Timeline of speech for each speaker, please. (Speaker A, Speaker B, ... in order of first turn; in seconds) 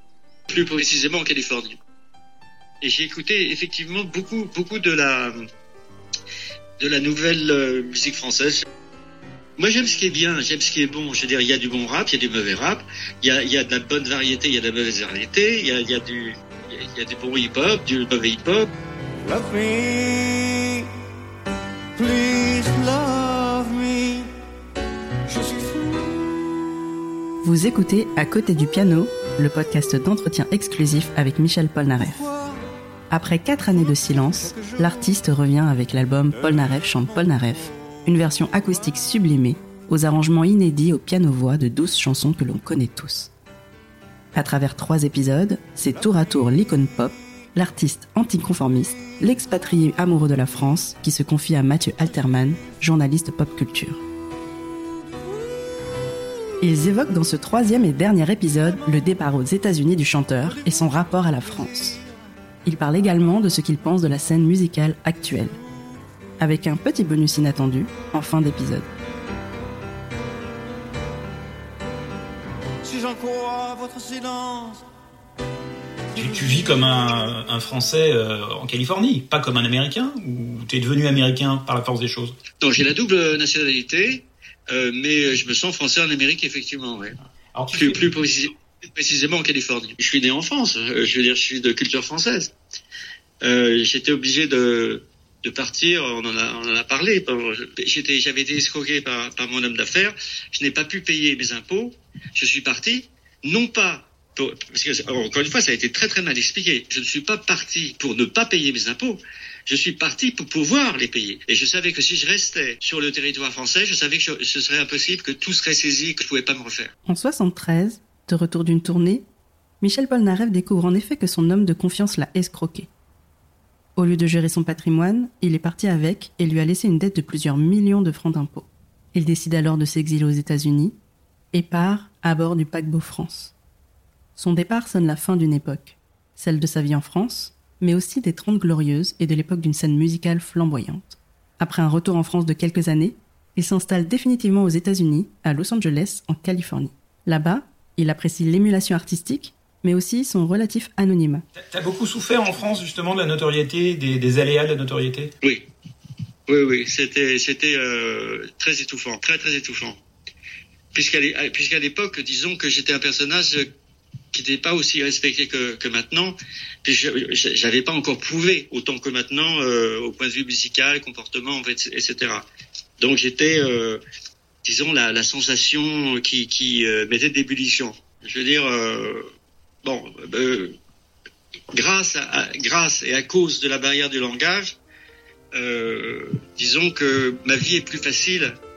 Speaker A: 0.5-1.8, 2.8-5.4, 6.8-8.6, 9.6-18.7, 82.6-87.2, 87.7-92.5, 93.4-116.9, 156.5-160.0, 160.9-163.7, 164.3-172.5, 173.0-174.0, 174.6-179.2, 179.8-180.7, 181.7-184.8, 185.5-188.6
Speaker B: 19.2-20.9, 21.9-24.3, 25.2-26.2, 32.1-32.6, 34.3-34.8, 72.8-74.8, 76.2-76.8
Speaker C: 27.4-32.2, 33.1-43.3, 44.3-54.0, 56.6-62.0, 62.6-65.6, 66.4-68.9, 117.0-119.2, 119.8-122.9, 124.0-131.0, 131.5-133.5, 134.4-151.4
Speaker D: 76.1-82.4, 87.5-88.0, 151.6-155.3